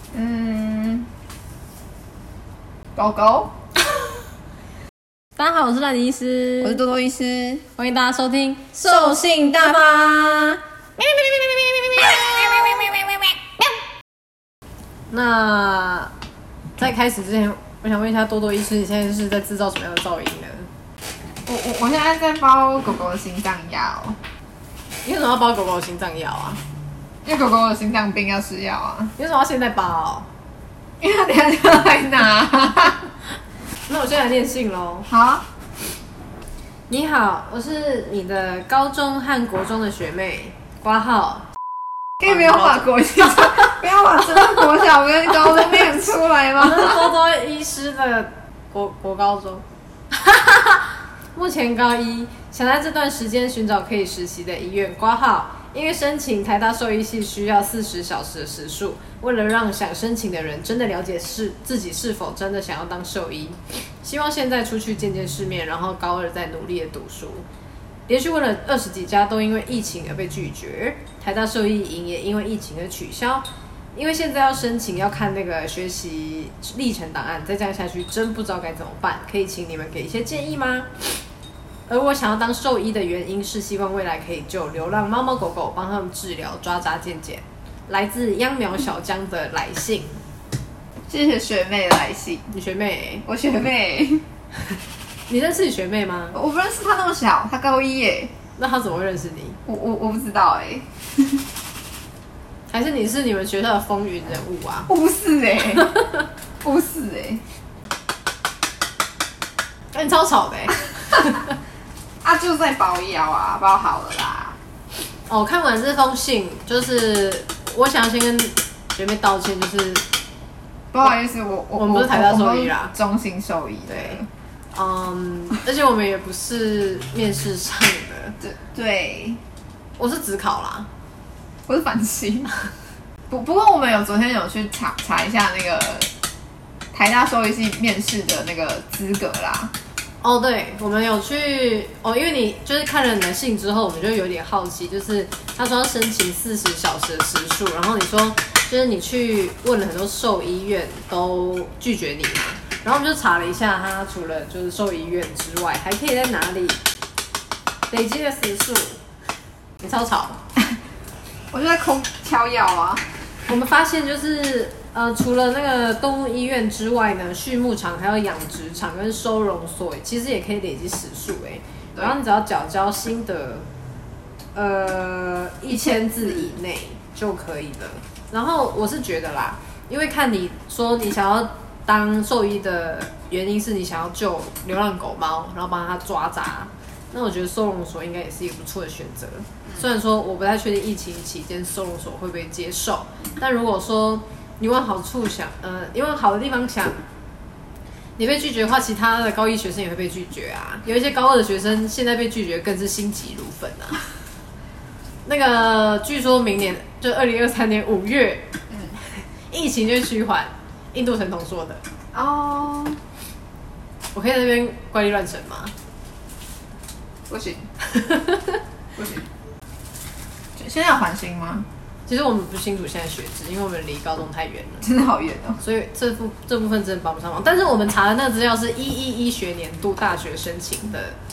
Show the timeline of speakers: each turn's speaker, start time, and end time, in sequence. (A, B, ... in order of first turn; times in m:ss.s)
0:00.1-0:01.1 A
0:02.9-0:03.5 A
0:05.4-0:06.8 B
0:06.6-0:07.7 A
0:07.8-0:09.9 B
0:08.8-0:10.6 A
0:11.2-0:13.1 A
0:15.1-0:16.1 B
0:16.8-0:20.7 B
0:21.4-0:24.2 A
0:25.0-0:26.6 B
0:27.2-0:29.1 A
0:29.2-0:30.3 B
0:31.0-0:33.1 A
0:33.9-0:35.1 B
0:35.1-0:35.4 A
0:36.9-0:41.4 B
0:42.2-0:47.1 A
0:42.3-0:42.8 B
0:43.4-0:43.7 B
0:46.6-1:07.5 B
1:08.1-1:21.1 B
1:21.9-1:30.2 B
1:31.1-1:32.5 A
1:32.5-1:33.2 B
1:33.2-1:34.2 A
1:35.3-1:36.4 B
1:36.3-1:38.3 A
1:38.6-1:39.6 B
1:39.6-1:41.4 A
1:42.7-1:44.9 B
1:44.9-1:45.9 A
1:46.6-1:47.4 A
1:49.9-1:51.6 B
1:52.2-1:54.6 A
1:55.3-2:00.0 B
2:00.9-2:04.2 A
2:01.8-2:02.9 B
2:03.9-2:04.2 B
2:04.7-2:08.4 B
2:08.4-2:09.4 A
2:10.0-2:10.9 B
2:11.7-2:12.5 A
2:13.3-2:16.1 A
2:16.9-2:19.7 A
2:20.2-2:36.8 B
2:37.9-2:39.0 B
2:39.8-2:40.4 B
2:41.5-2:43.0 A
2:43.5-2:53.7 B
2:54.5-3:17.0 B
2:55.7-2:56.5 A
3:18.2-3:24.0 B
3:25.2-3:28.5 B
3:28.7-3:28.9 A
3:29.5-3:31.8 B
3:32.1-3:33.0 A
3:34.1-3:35.7 B
3:37.3-3:37.6 A
3:37.9-3:38.5 B
3:38.9-3:39.3 A
3:40.6-3:41.6 A
3:42.1-3:44.8 B
3:44.8-3:45.6 A
3:45.6-3:51.2 B